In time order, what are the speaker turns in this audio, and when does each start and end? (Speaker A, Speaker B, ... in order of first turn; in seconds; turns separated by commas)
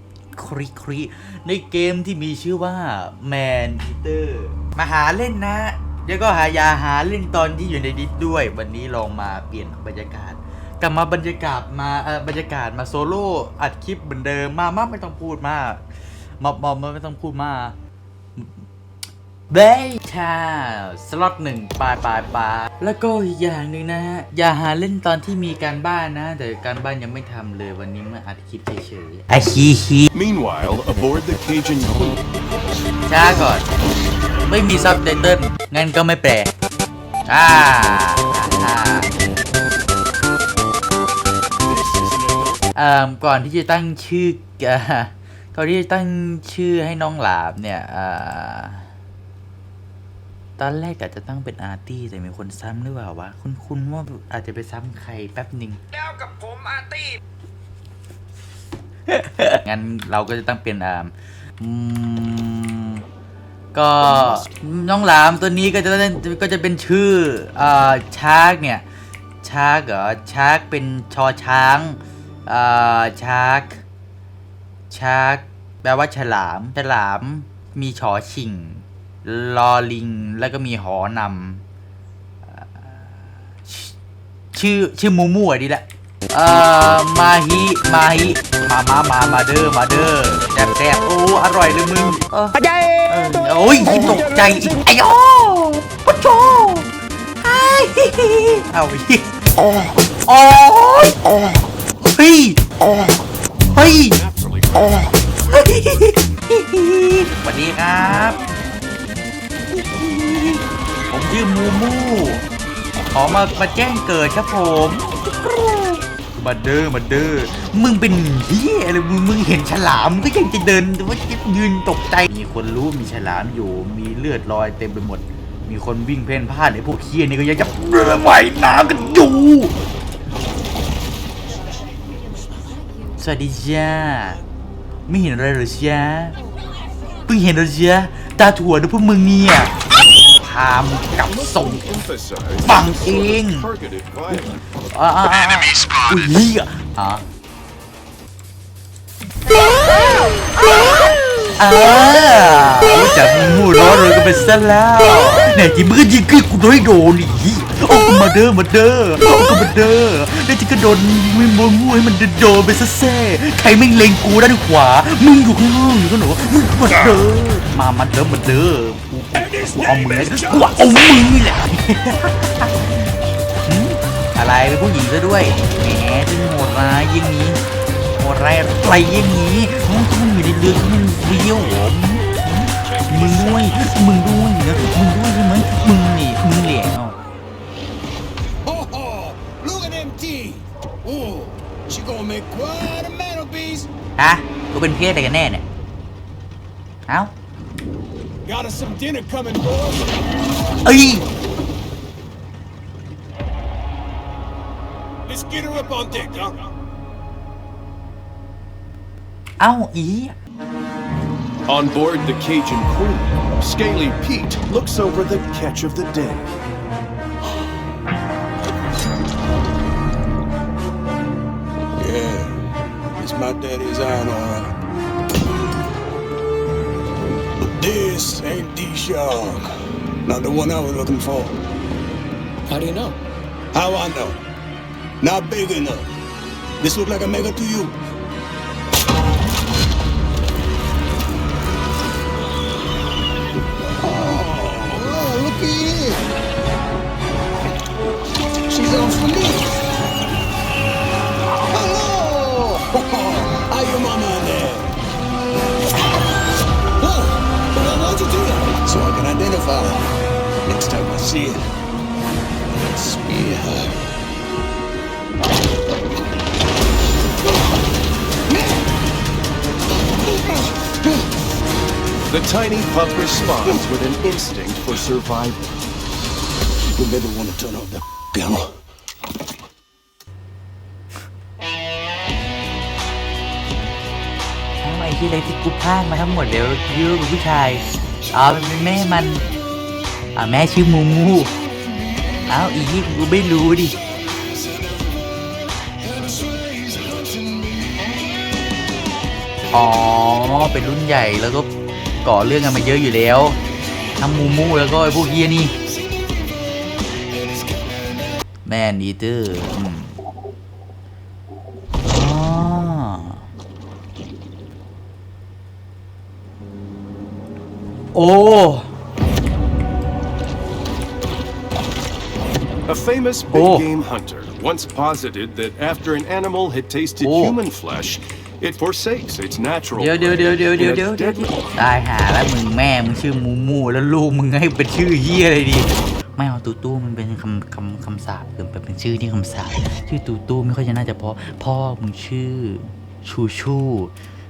Speaker A: 0.3-15.8, Speaker A: 16.4-17.8, Speaker A: 19.5-30.1, Speaker B: 30.1-32.2, Speaker A: 33.1-33.7, Speaker A: 34.4-36.5, Speaker A: 37.3-39.1, Speaker B: 41.6-42.6, Speaker A: 42.8-48.9, Speaker A: 50.6-55.8, Speaker A: 59.1-63.0, Speaker A: 63.7-68.8, Speaker A: 69.4-73.8, Speaker A: 74.9-81.6, Speaker A: 82.4-84.0, Speaker A: 84.5-96.9, Speaker A: 97.4-99.3, Speaker A: 100.2-101.5, Speaker A: 102.0-103.1, Speaker A: 103.7-104.2, Speaker B: 104.0-105.2, Speaker A: 105.0-108.4, Speaker A: 109.7-112.5, Speaker A: 113.1-129.7, Speaker A: 133.2-134.4, Speaker A: 135.1-136.4, Speaker A: 137.3-139.8, Speaker A: 140.4-141.9, Speaker B: 141.2-144.6, Speaker A: 142.6-143.7, Speaker A: 144.9-147.2, Speaker A: 151.6-173.1, Speaker C: 169.4-170.7, Speaker A: 173.7-177.6, Speaker A: 178.2-187.2, Speaker B: 182.9-184.0, Speaker C: 188.7-193.9, Speaker A: 194.2-195.7, Speaker A: 197.1-197.3, Speaker C: 198.5-200.2, Speaker A: 200.8-201.3, Speaker C: 205.3-206.6, Speaker A: 209.6-210.3, Speaker B: 211.7-216.5, Speaker C: 222.0-222.6, Speaker C: 223.2-224.7, Speaker C: 227.8-231.6, Speaker C: 232.7-233.2, Speaker C: 233.7-234.4, Speaker C: 235.2-236.1, Speaker C: 236.8-237.9, Speaker C: 244.0-246.3, Speaker C: 248.7-249.7, Speaker C: 251.7-255.0, Speaker C: 257.0-260.1, Speaker C: 260.6-261.7, Speaker C: 262.7-264.0, Speaker C: 268.5-268.8, Speaker B: 272.3-275.8, Speaker C: 277.0-278.7, Speaker A: 284.8-289.4, Speaker A: 290.4-291.5, Speaker A: 292.5-294.0, Speaker C: 296.0-298.2, Speaker A: 299.7-301.7, Speaker A: 302.2-303.6, Speaker A: 304.2-305.7, Speaker C: 307.4-307.9, Speaker A: 308.6-310.2, Speaker A: 312.0-313.4, Speaker A: 318.1-318.9, Speaker B: 322.9-331.6, Speaker A: 323.5-323.9, Speaker A: 327.2-327.6, Speaker A: 329.9-344.1